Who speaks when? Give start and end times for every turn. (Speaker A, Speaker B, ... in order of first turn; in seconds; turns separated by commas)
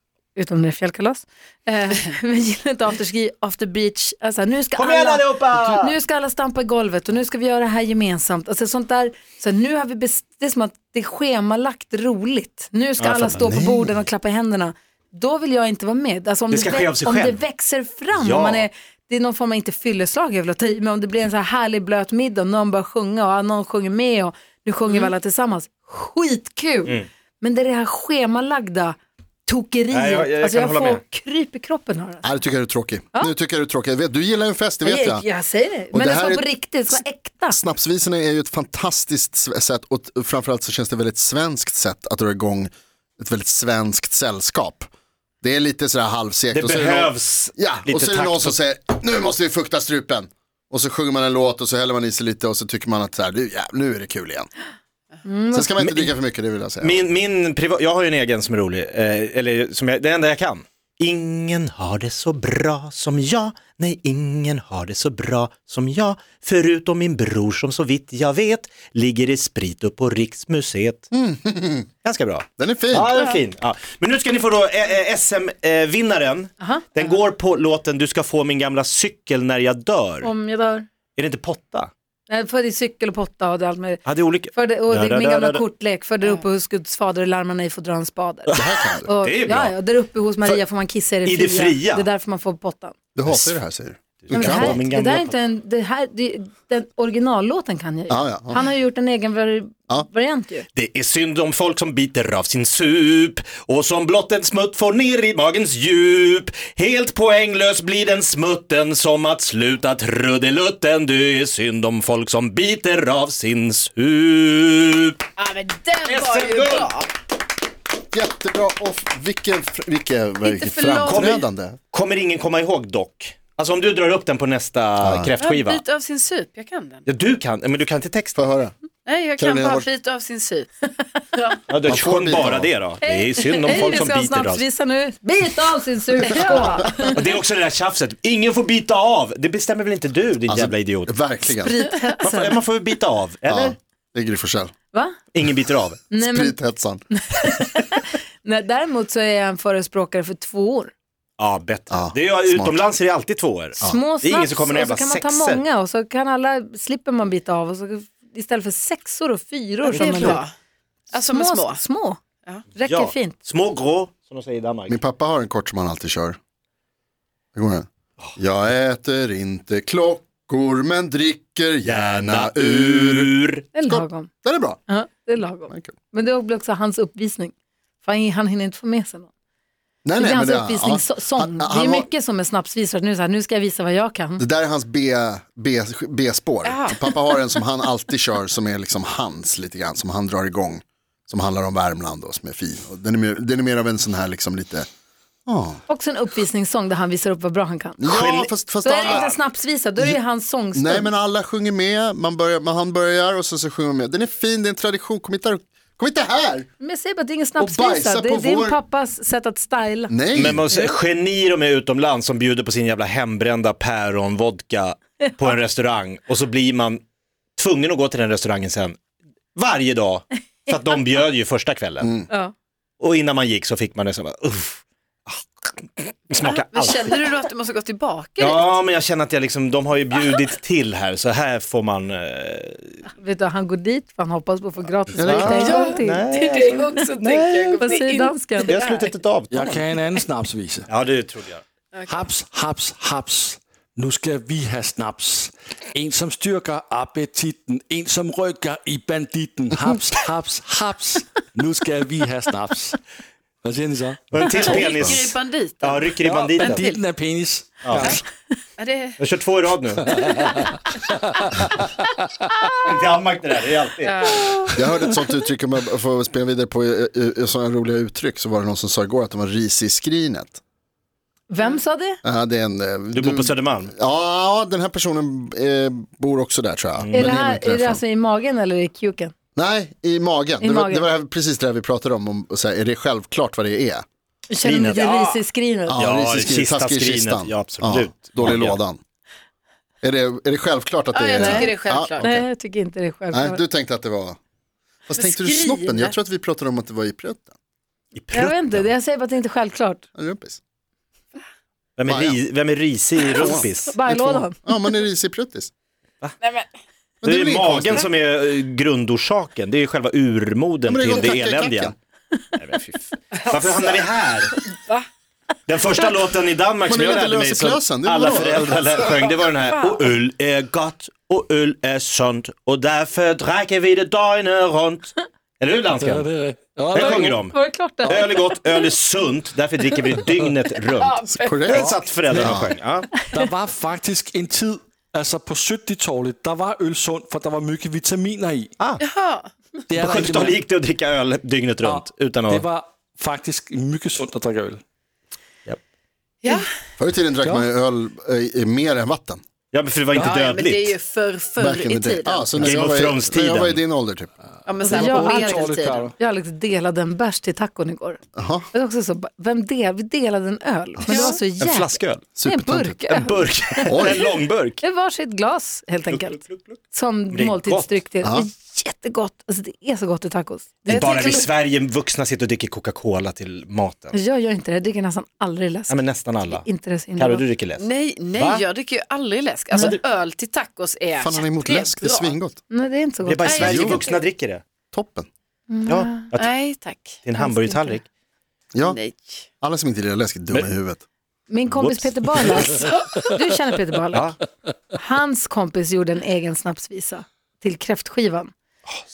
Speaker A: 0.3-32.2, Speaker B: 4.8-6.0, Speaker B: 13.0-13.4, Speaker C: 13.3-13.9, Speaker B: 16.5-17.4, Speaker B: 18.1-18.7, Speaker B: 29.9-31.0, Speaker C: 32.2-35.2, Speaker A: 34.8-37.6, Speaker C: 35.9-44.9, Speaker C: 45.4-54.5, Speaker B: 46.5-48.6, Speaker A: 55.2-55.8, Speaker C: 55.5-57.0, Speaker B: 55.8-56.1, Speaker B: 56.8-71.1, Speaker C: 71.1-71.9, Speaker B: 72.0-80.3, Speaker C: 72.6-73.2, Speaker A: 76.6-77.2, Speaker A: 80.2-80.9, Speaker B: 81.2-81.9, Speaker A: 82.3-88.5, Speaker B: 84.1-85.6, Speaker C: 88.5-89.1, Speaker A: 89.0-93.0, Speaker B: 89.2-89.7, Speaker B: 91.2-92.1, Speaker C: 93.2-94.8, Speaker B: 93.3-93.6, Speaker B: 94.2-95.3, Speaker A: 94.3-100.7, Speaker C: 98.1-98.7, Speaker B: 100.8-115.2, Speaker D: 115.4-117.1, Speaker B: 116.0-116.9, Speaker C: 118.1-121.8, Speaker D: 120.4-121.5, Speaker B: 121.1-125.8, Speaker C: 125.0-125.3, Speaker D: 125.4-127.0, Speaker B: 127.1-128.4, Speaker C: 128.3-128.7, Speaker D: 129.1-130.8, Speaker C: 129.4-129.9, Speaker D: 131.3-131.6, Speaker B: 131.7-134.6, Speaker C: 131.8-132.7, Speaker A: 133.0-137.2, Speaker D: 136.2-136.8, Speaker B: 136.9-141.2, Speaker C: 140.5-141.9, Speaker A: 141.6-142.6, Speaker B: 142.2-143.8, Speaker C: 143.4-144.7, Speaker A: 144.9-145.2, Speaker B: 145.3-146.0, Speaker A: 146.1-146.6, Speaker C: 146.2-147.0, Speaker A: 147.1-150.9, Speaker B: 151.4-155.6, Speaker C: 151.9-152.9, Speaker A: 153.8-160.4, Speaker D: 159.9-160.5, Speaker B: 159.9-160.3, Speaker D: 161.1-161.8, Speaker A: 161.3-162.2, Speaker A: 162.7-163.4, Speaker B: 162.9-165.0, Speaker C: 164.9-166.4, Speaker C: 167.6-173.3, Speaker B: 171.8-173.7, Speaker A: 173.8-174.3, Speaker C: 173.9-174.8, Speaker A: 174.9-179.3, Speaker C: 180.0-182.1, Speaker A: 180.2-184.4, Speaker C: 184.4-194.9, Speaker D: 186.7-187.0, Speaker C: 195.5-195.8, Speaker A: 195.9-198.0, Speaker C: 198.0-199.3, Speaker B: 198.0-199.3, Speaker A: 198.8-201.1, Speaker C: 200.7-206.7, Speaker A: 206.8-210.1, Speaker C: 207.6-208.8, Speaker C: 210.1-210.6, Speaker B: 210.3-217.0, Speaker B: 217.6-219.0, Speaker B: 219.6-222.2, Speaker C: 222.0-222.3, Speaker B: 223.0-227.3, Speaker D: 226.4-228.8, Speaker B: 228.4-233.1, Speaker A: 233.2-236.3, Speaker C: 235.1-235.7, Speaker B: 235.2-237.9, Speaker D: 235.6-239.0, Speaker A: 237.8-238.8, Speaker B: 238.7-239.8, Speaker E: 239.5-240.9, Speaker B: 240.9-241.6, Speaker D: 241.9-242.3, Speaker E: 242.1-253.0, Speaker E: 253.6-254.4, Speaker B: 254.3-256.9, Speaker D: 254.4-256.1, Speaker E: 256.2-258.2, Speaker D: 256.7-257.0, Speaker B: 257.8-258.1, Speaker D: 257.9-258.2, Speaker D: 258.8-259.2, Speaker B: 259.2-260.1, Speaker E: 260.1-262.1, Speaker B: 262.9-264.3, Speaker D: 264.0-264.7, Speaker C: 264.7-270.6, Speaker A: 271.5-272.2, Speaker C: 272.2-278.0, Speaker B: 273.1-273.9, Speaker B: 277.0-277.3, Speaker A: 277.1-279.3, Speaker C: 279.6-284.0, Speaker A: 280.6-281.1, Speaker A: 284.5-286.0, Speaker B: 284.6-285.4, Speaker C: 285.9-289.0, Speaker B: 286.0-288.8, Speaker C: 290.0-292.5, Speaker D: 291.1-292.3, Speaker A: 291.4-293.6, Speaker C: 293.3-294.4, Speaker C: 295.1-297.5, Speaker A: 295.1-296.1, Speaker B: 298.1-298.9, Speaker A: 298.3-300.0, Speaker C: 300.1-300.6, Speaker B: 302.0-304.0, Speaker C: 302.1-302.4, Speaker C: 303.3-305.7, Speaker A: 303.8-304.6, Speaker D: 306.4-306.7, Speaker C: 307.2-308.1, Speaker B: 307.2-311.9, Speaker C: 310.9-311.9, Speaker B: 312.6-314.6, Speaker D: 313.5-314.0, Speaker D: 314.7-315.1, Speaker B: 315.7-326.3, Speaker C: 316.9-319.2, Speaker E: 326.0-327.4, Speaker B: 326.9-333.1, Speaker A: 327.0-328.9, Speaker D: 331.0-331.9, Speaker C: 331.4-331.8, Speaker E: 331.7-332.6, Speaker C: 332.4-332.7, Speaker E: 333.3-338.7, Speaker D: 339.0-339.5, Speaker E: 339.9-340.6, Speaker B: 340.0-342.7, Speaker E: 341.8-344.8, Speaker C: 347.0-349.4, Speaker B: 349.7-351.0, Speaker D: 350.2-352.8, Speaker C: 351.6-354.3, Speaker B: 352.6-353.8, Speaker D: 354.7-356.1, Speaker A: 354.8-364.1, Speaker E: 354.9-356.1, Speaker C: 358.4-358.7, Speaker C: 361.0-361.3, Speaker D: 361.1-361.4, Speaker B: 361.6-362.3, Speaker C: 362.4-363.0, Speaker B: 363.1-364.8, Speaker C: 363.9-364.3, Speaker A: 364.8-371.5, Speaker B: 366.1-368.0, Speaker D: 370.9-371.5, Speaker B: 370.9-374.2, Speaker A: 374.1-377.5, Speaker B: 375.9-376.6, Speaker B: 377.2-378.7, Speaker D: 377.8-382.4, Speaker B: 379.8-380.0, Speaker C: 381.2-382.6, Speaker A: 382.7-383.8, Speaker B: 383.2-384.6, Speaker D: 383.4-384.2, Speaker C: 383.6-384.0, Speaker C: 384.9-385.3, Speaker A: 385.7-386.3, Speaker B: 385.9-386.5, Speaker D: 386.4-387.2, Speaker B: 387.2-388.1, Speaker A: 387.4-388.0, Speaker C: 388.7-389.0, Speaker D: 388.9-389.5, Speaker C: 389.6-391.0, Speaker A: 391.5-394.3, Speaker B: 391.7-392.7, Speaker B: 394.1-394.4, Speaker A: 394.9-398.5